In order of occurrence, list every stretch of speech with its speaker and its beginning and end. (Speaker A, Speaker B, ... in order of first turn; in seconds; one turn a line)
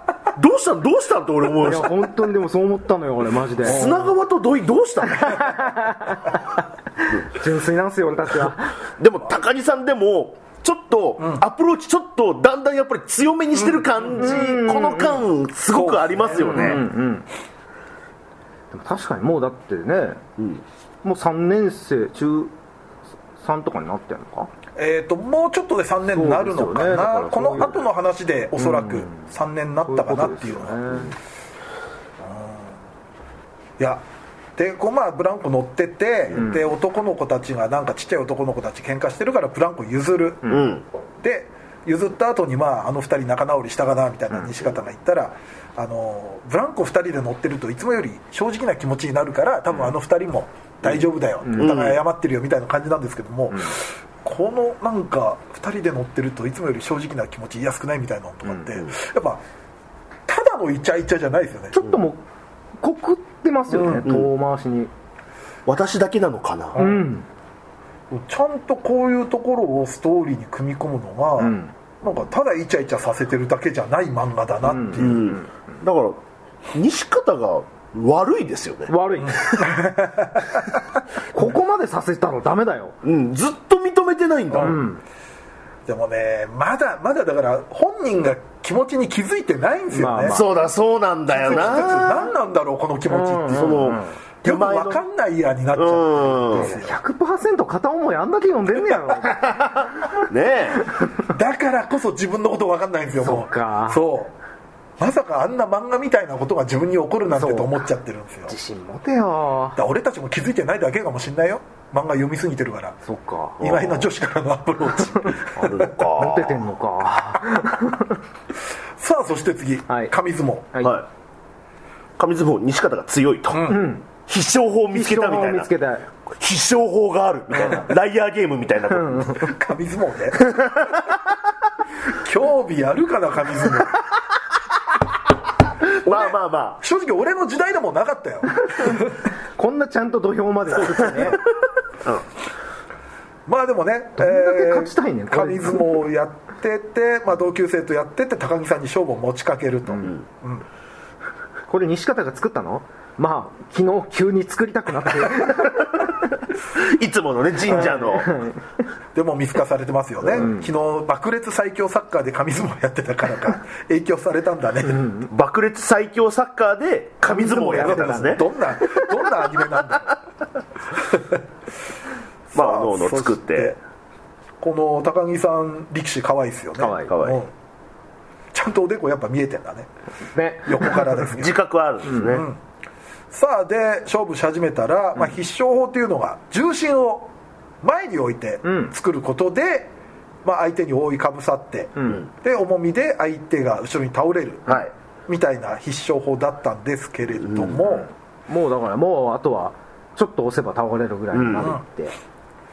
Speaker A: 0.3-2.0
Speaker B: 1.6-4.0
Speaker C: 3.6-4.1
Speaker A: 3.6-5.7
Speaker B: 5.1-8.7
Speaker A: 9.0-16.8
Speaker C: 13.6-13.8
Speaker B: 14.1-15.2
Speaker C: 15.7-16.8
Speaker B: 16.4-17.3
Speaker B: 18.7-20.2
Speaker A: 20.4-20.6
Speaker B: 21.0-22.5
Speaker B: 23.4-24.5
Speaker C: 24.8-31.0
Speaker B: 26.1-27.8
Speaker B: 28.6-29.3
Speaker B: 29.9-31.1
Speaker C: 32.2-32.7
Speaker C: 33.8-34.0
Speaker C: 34.5-40.6
Speaker A: 40.5-40.8
Speaker C: 41.2-59.4
Speaker B: 51.4-51.8
Speaker A: 51.6-52.0
Speaker C: 60.3-61.8
Speaker B: 61.7-62.2
Speaker B: 62.8-64.9
Speaker C: 63.7-64.0
Speaker A: 64.0-64.3
Speaker A: 65.7-66.8
Speaker C: 66.7-67.0
Speaker B: 66.8-67.2
Speaker C: 68.1-75.3
Speaker B: 71.4-71.7
Speaker B: 74.6-75.4
Speaker A: 75.0-76.2
Speaker A: 76.7-78.9
Speaker B: 78.9-79.8
Speaker C: 79.2-80.6
Speaker B: 81.3-82.9
Speaker A: 83.0-84.8
Speaker C: 84.5-84.8
Speaker B: 84.5-85.0
Speaker C: 85.8-90.4
Speaker B: 89.9-90.5
Speaker A: 90.2-92.3
Speaker C: 91.3-97.0
Speaker B: 91.5-92.0
Speaker B: 93.1-94.1
Speaker A: 93.5-95.0
Speaker A: 95.7-96.7
Speaker B: 96.5-100.2
Speaker A: 99.4-100.8
Speaker C: 101.2-104.3
Speaker B: 103.2-104.0
Speaker C: 105.0-108.5
Speaker B: 107.3-107.8
Speaker B: 108.5-109.8
Speaker C: 109.8-113.0
Speaker B: 113.0-113.7
Speaker C: 113.6-115.9
Speaker A: 113.6-114.0
Speaker A: 115.5-116.6
Speaker B: 115.6-118.2
Speaker C: 119.0-120.7
Speaker B: 120.7-121.0
Speaker A: 122.2-125.7
Speaker C: 123.5-123.8
Speaker B: 123.6-124.0
Speaker B: 124.9-126.0
Speaker A: 126.4-129.5
Speaker B: 128.9-129.5
Speaker C: 129.3-130.5
Speaker A: 130.5-131.0
Speaker C: 132.1-134.0
Speaker A: 136.0-136.8
Speaker C: 136.0-139.2
Speaker B: 138.7-141.4
Speaker C: 143.4-150.7
Speaker B: 144.2-146.0
Speaker B: 151.7-156.1
Speaker A: 156.7-158.4
Speaker B: 157.7-158.6
Speaker C: 159.1-165.1
Speaker B: 160.3-160.7
Speaker B: 164.9-165.2
Speaker A: 165.2-168.5
Speaker B: 167.2-168.5
Speaker C: 167.4-170.2
Speaker C: 171.1-171.4
Speaker C: 172.5-173.8
Speaker A: 172.5-173.8
Speaker C: 174.6-177.5
Speaker B: 176.8-177.1
Speaker A: 177.1-177.4
Speaker C: 178.5-179.9
Speaker B: 180.3-181.3
Speaker C: 180.7-181.6
Speaker A: 181.2-182.4
Speaker C: 182.2-182.6
Speaker C: 183.3-187.3
Speaker C: 187.8-189.9
Speaker B: 188.6-188.9
Speaker C: 190.4-198.1
Speaker B: 191.9-192.2
Speaker A: 197.4-197.8
Speaker B: 197.9-202.1
Speaker A: 201.3-201.8